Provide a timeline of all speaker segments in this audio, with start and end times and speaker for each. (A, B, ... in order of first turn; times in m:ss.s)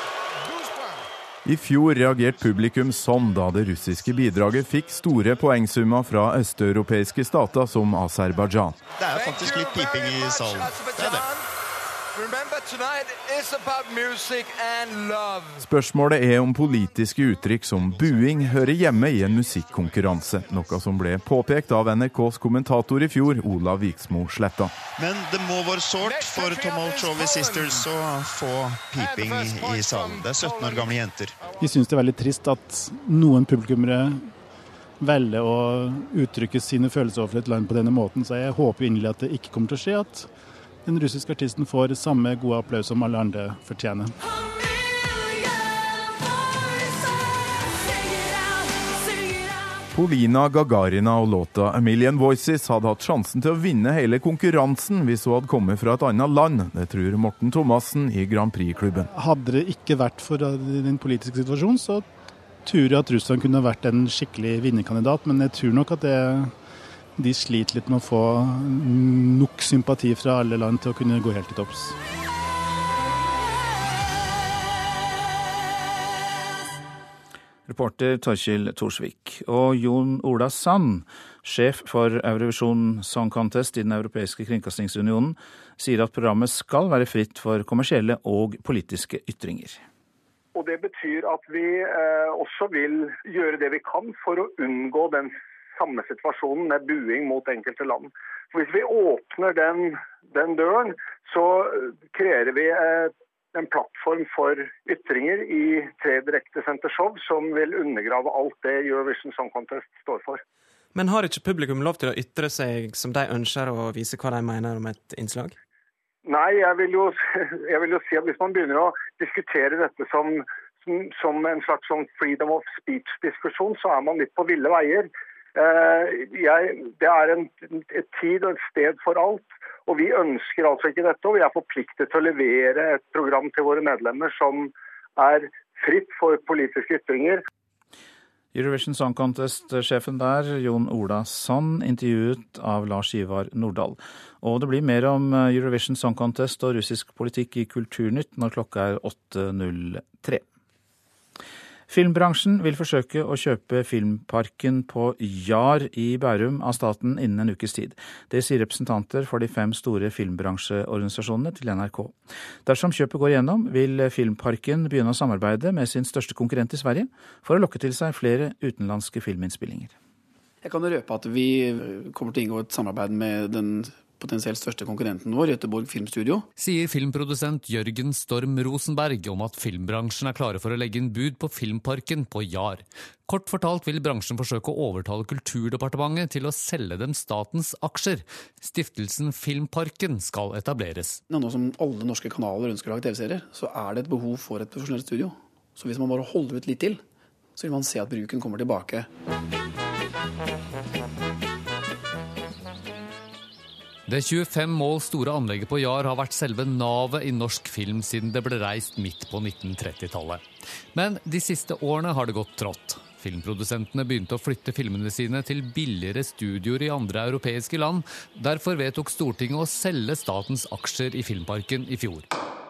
0:01.4-0:08.8 A
0:09.0-0:11.3 B
0:15.6-0:24.7 A
0:25.0-0:31.4 B
0:31.6-0:34.3 C
0:35.0-0:40.3 C
0:40.8-0:44.2 C
0:49.9-0:59.1 A
0:59.1-1:02.1 C
1:02.6-1:06.6 C
1:07.2-1:12.0 C
1:17.7-1:29.8 D
1:30.6-1:50.4 E
1:51.0-1:55.6 F
1:56.3-2:17.4 E
2:18.5-2:30.4 D
2:31.9-2:42.2 D
2:42.7-2:49.9 D
2:50.6-2:56.5 G
2:56.6-3:11.2 H
3:11.3-3:17.0 G
3:17.6-3:19.1 G
3:24.1-3:42.3 H